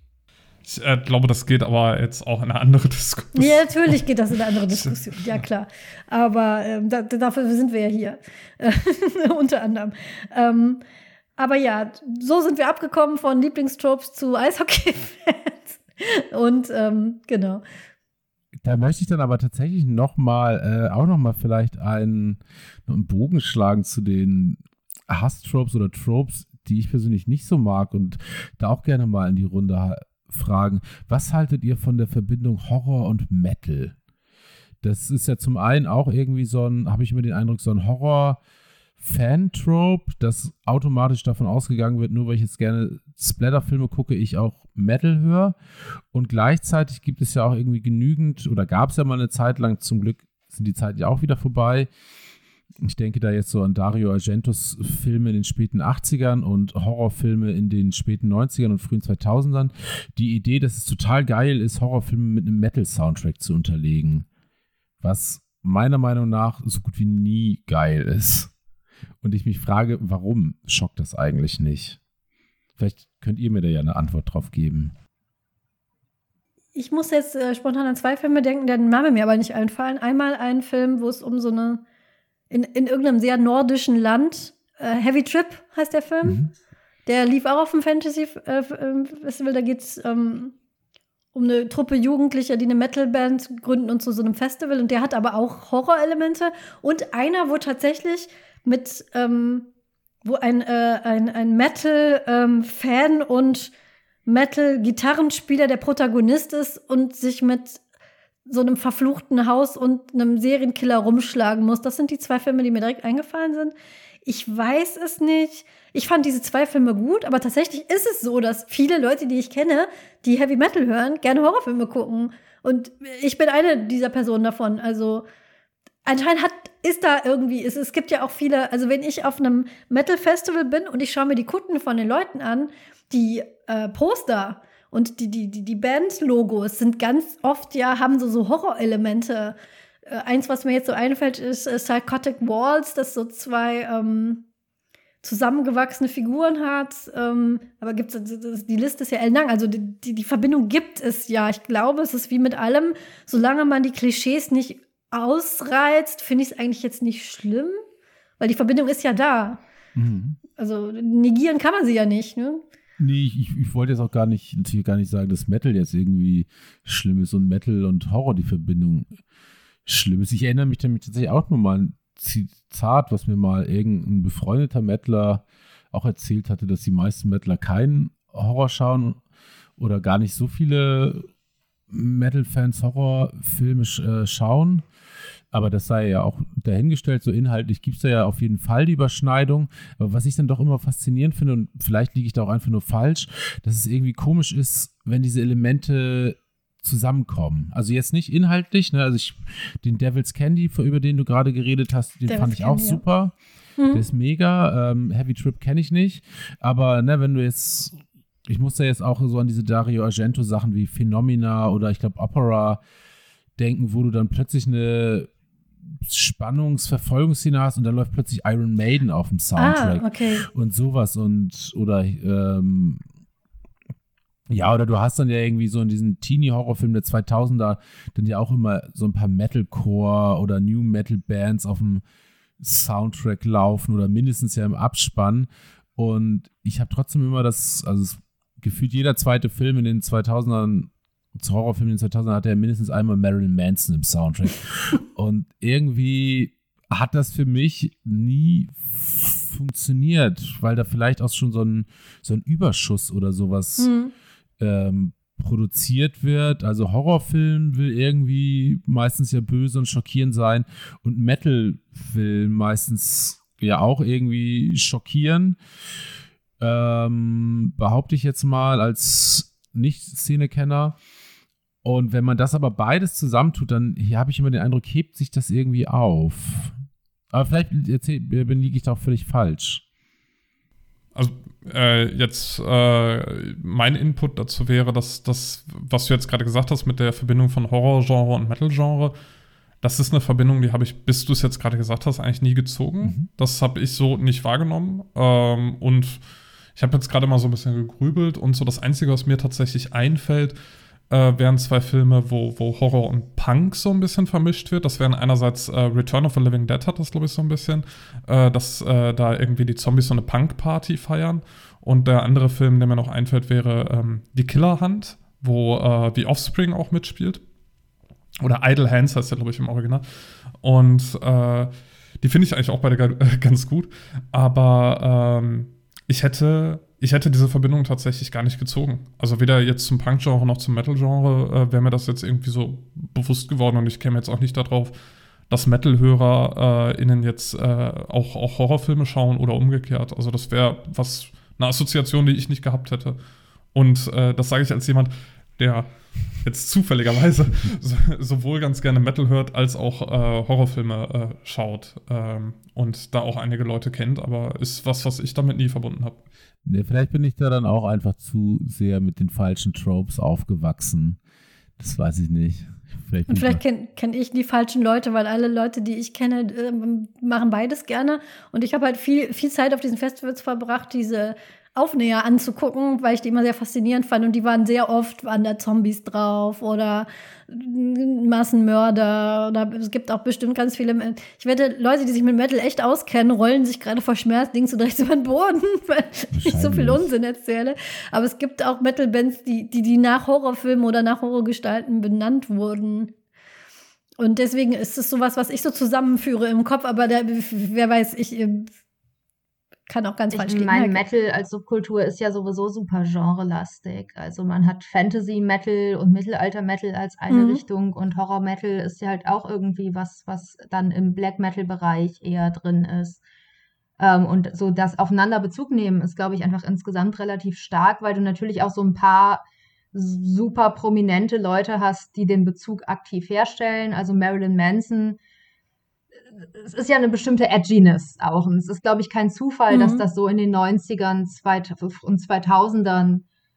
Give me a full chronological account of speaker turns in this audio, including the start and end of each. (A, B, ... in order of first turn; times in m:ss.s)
0:00.6-0:04.0 A
0:03.4-0:10.8 B
0:04.7-0:05.0 A
0:11.4-0:17.6 B
0:18.6-0:34.0 C
0:34.8-0:38.4 C
0:39.0-0:45.6 C
0:46.1-0:51.9 C
0:52.8-1:04.3 C
1:05.0-1:08.5 C
1:09.2-1:12.0 C
1:12.8-1:14.9 C
1:16.8-1:21.8 B
1:22.5-1:26.4 B
1:27.1-1:30.5 B
1:31.3-1:39.7 B
1:40.2-1:43.7 B
1:44.3-1:47.8 B
1:48.5-1:53.7 B
1:54.2-2:05.3 B
2:06.0-2:19.6 B
2:20.1-2:24.4 B
2:25.2-2:37.8 B
2:38.4-2:39.6 B
2:40.0-2:40.4 C
2:40.6-2:42.6 B
2:43.0-2:49.2 C
2:49.9-2:59.2 C
2:59.8-3:01.3 C
3:01.9-3:04.8 C
3:05.5-3:23.4 C
3:22.3-3:23.0 B
3:23.8-3:24.0 B
3:23.9-3:32.8 C
3:33.6-3:35.3 C
3:36.0-3:43.0 C
3:39.6-3:40.4 B
3:44.5-3:52.0 C
3:52.6-4:13.9 C
4:13.8-4:14.1 B
4:14.6-4:25.6 C
4:26.6-4:31.0 C
4:31.8-4:36.8 C
4:37.3-4:39.8 C
4:41.2-4:49.2 A
4:49.8-4:56.2 A
4:53.0-4:53.3 C
4:56.8-5:00.6 A
5:01.1-5:17.4 A
5:18.4-5:20.1 A
5:20.6-5:35.0 A
5:35.5-5:43.2 A
5:43.7-5:56.2 A
5:56.7-6:01.2 C
6:01.8-6:03.6 C
6:03.3-6:33.1 B
6:26.3-6:27.1 C
6:34.2-6:38.7 B
6:39.9-6:41.0 B
6:40.3-6:53.2 D
6:47.3-6:47.6 B
6:54.0-7:05.2 D
7:06.3-7:13.2 D
7:09.7-7:10.0 B